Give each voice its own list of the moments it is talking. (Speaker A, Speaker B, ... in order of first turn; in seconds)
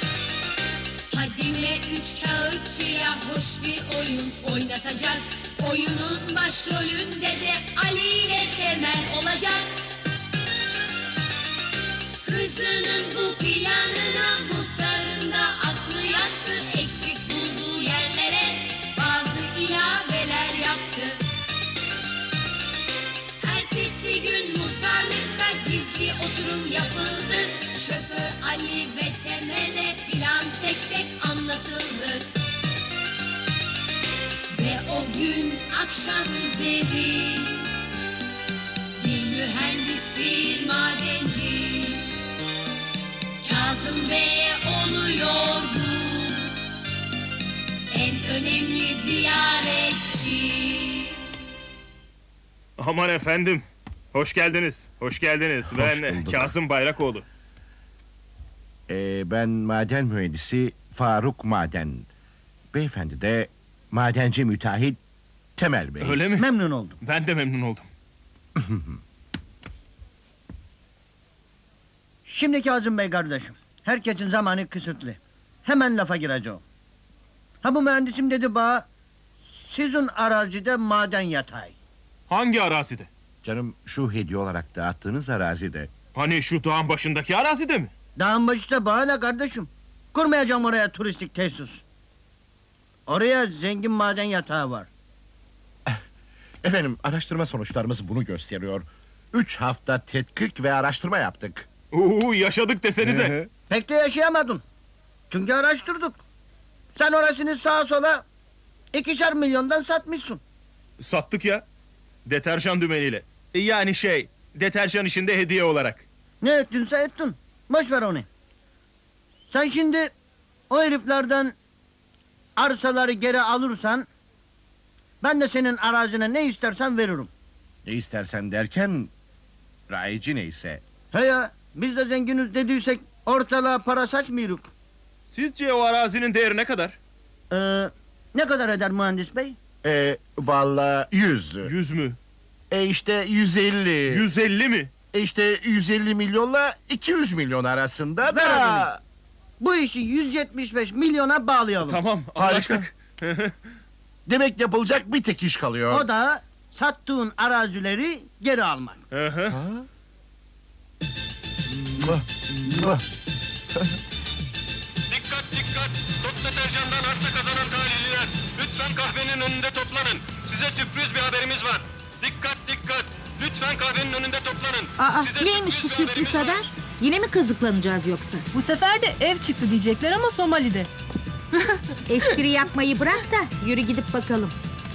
Speaker A: 1.1-9.7, 12.2-21.2, 23.4-32.3, 34.5-37.7, 39.0-42.1, 43.4-46.5, 47.9-51.1
Speaker B: 52.8-57.2, 66.0-66.5, 67.0-67.9, 82.3-83.1, 86.1-87.9, 101.9-103.3, 111.0-111.6, 112.2-116.0, 135.3-137.0, 141.6-142.2, 144.1-144.9, 151.8-153.5, 159.1-159.6
Speaker C: 55.7-56.5, 58.9-62.1, 62.7-65.0, 65.6-66.3, 68.6-69.0, 83.4-85.9, 96.6-101.7, 103.0-103.5, 127.8-129.1, 129.9-130.8, 139.8-141.7, 142.7-144.3, 145.1-149.0, 152.4-152.8, 154.3-156.0, 159.5-159.8, 162.7-163.0
Speaker D: 66.3-66.9, 72.3-76.6, 77.6-78.8, 79.4-81.7, 88.2-91.8, 93.1-94.9, 103.7-104.6, 105.3-106.2, 106.9-108.2, 108.9-110.4, 116.4-118.2, 119.5-120.1, 120.7-121.5, 122.6-124.0, 125.2-127.3, 131.1-134.7, 137.5-139.6, 148.4-148.7, 149.6-152.0, 155.9-159.0
Speaker E: 165.1-176.7
Speaker F: 175.0-178.4, 182.1-184.5
Speaker G: 178.5-180.9